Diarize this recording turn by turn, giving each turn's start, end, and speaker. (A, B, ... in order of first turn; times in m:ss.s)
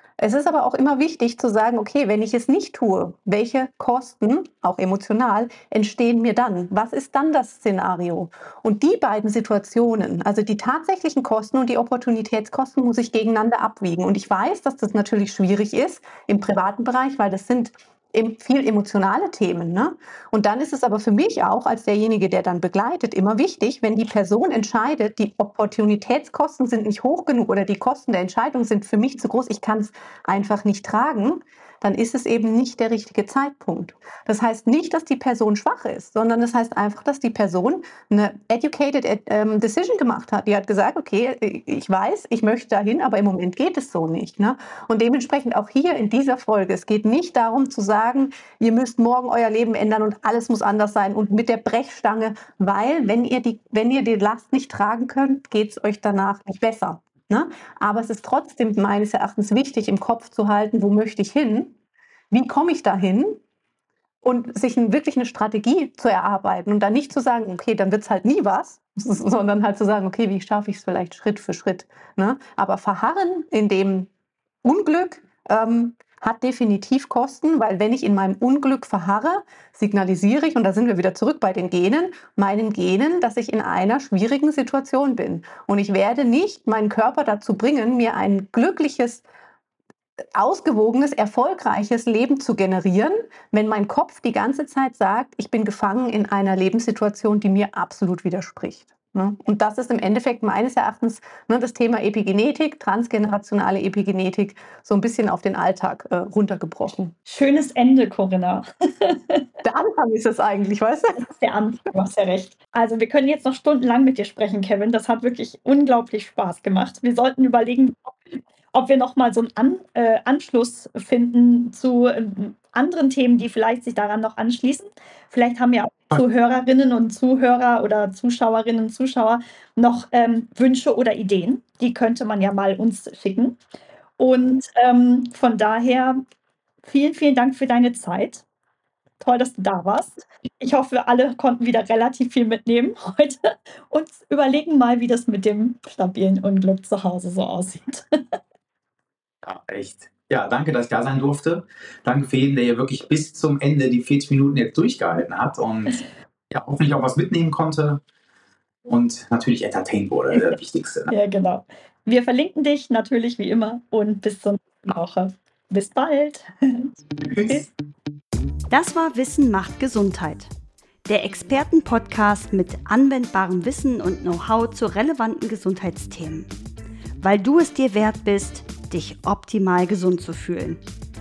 0:00.2-1:01.8 A
1:02.3-1:03.4 A
1:04.2-1:14.1 A
1:14.6-1:29.2 A
1:30.2-1:47.2 A
1:47.3-1:49.5 B
1:49.6-1:51.2 A
1:51.2-2:13.6 B
2:14.2-2:16.2 B
2:16.8-2:18.4 B
2:19.2-2:28.3 B
2:29.4-2:38.0 C
2:38.9-2:41.1 C
2:41.1-2:46.9 B
2:47.2-2:47.7 C
2:48.7-2:50.5 D
2:51.1-2:56.5 D
2:57.2-3:00.8 D